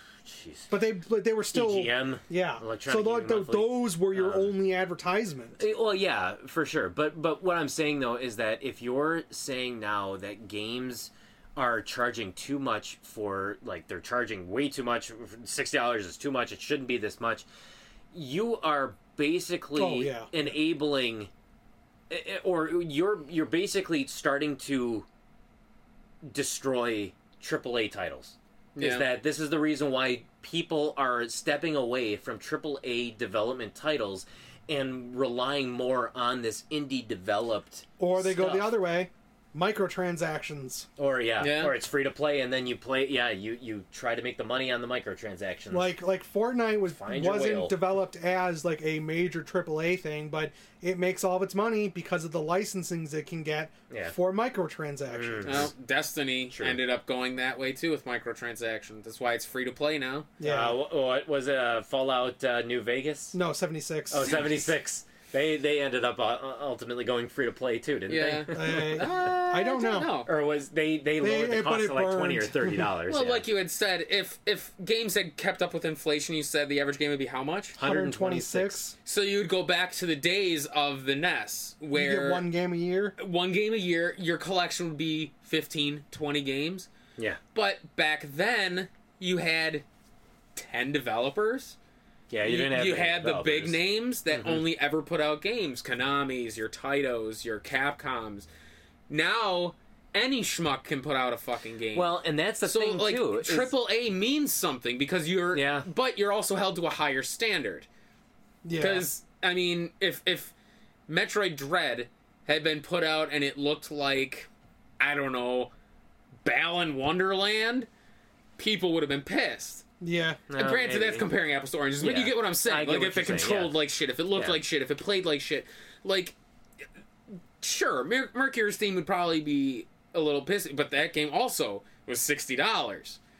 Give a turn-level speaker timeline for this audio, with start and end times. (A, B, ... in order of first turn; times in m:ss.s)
0:00.2-0:00.7 A
0:00.7-0:05.6 B
0:01.5-0:04.5 A
0:05.6-0:17.4 A
0:18.1-0:21.3 A
0:19.8-0:20.3 B
0:22.1-0:25.0 A
0:26.2-0:38.8 A
0:28.7-0:29.0 C
0:38.0-0:40.9 B
0:41.0-0:45.9 A
0:41.4-0:41.8 C
0:45.7-0:55.7 B
0:46.9-0:47.8 A
0:53.9-0:54.1 A
0:55.1-0:55.7 A
0:55.4-1:00.3 C
0:56.5-0:56.8 A
1:00.4-1:00.8 B
1:00.4-1:03.4 A
1:03.3-1:04.6 B
1:04.1-1:09.4 A
1:08.1-1:10.3 C
1:08.5-1:10.2 B
1:10.2-1:13.4 A
1:11.2-1:12.9 B
1:13.1-1:17.8 C
1:17.8-1:18.8 A
1:17.8-1:19.0 B
1:19.0-1:22.4 C
1:21.9-1:23.2 B
1:23.2-1:26.9 C
1:27.5-1:29.8 C
1:30.5-1:31.8 C
1:32.3-1:33.8 A
1:32.4-1:38.5 C
1:34.3-1:34.6 A
1:39.1-1:47.9 C
1:41.9-1:43.7 A
1:45.5-1:45.9 A
1:48.6-1:49.1 B
1:48.8-1:50.5 C
1:51.1-1:54.5 C
1:55.0-1:55.7 C
1:56.4-1:57.9 C
1:58.6-1:59.8 C
2:00.0-2:00.4 B
2:00.5-2:01.3 A
2:00.6-2:06.4 C
2:02.0-2:03.7 A
2:07.6-2:13.2 C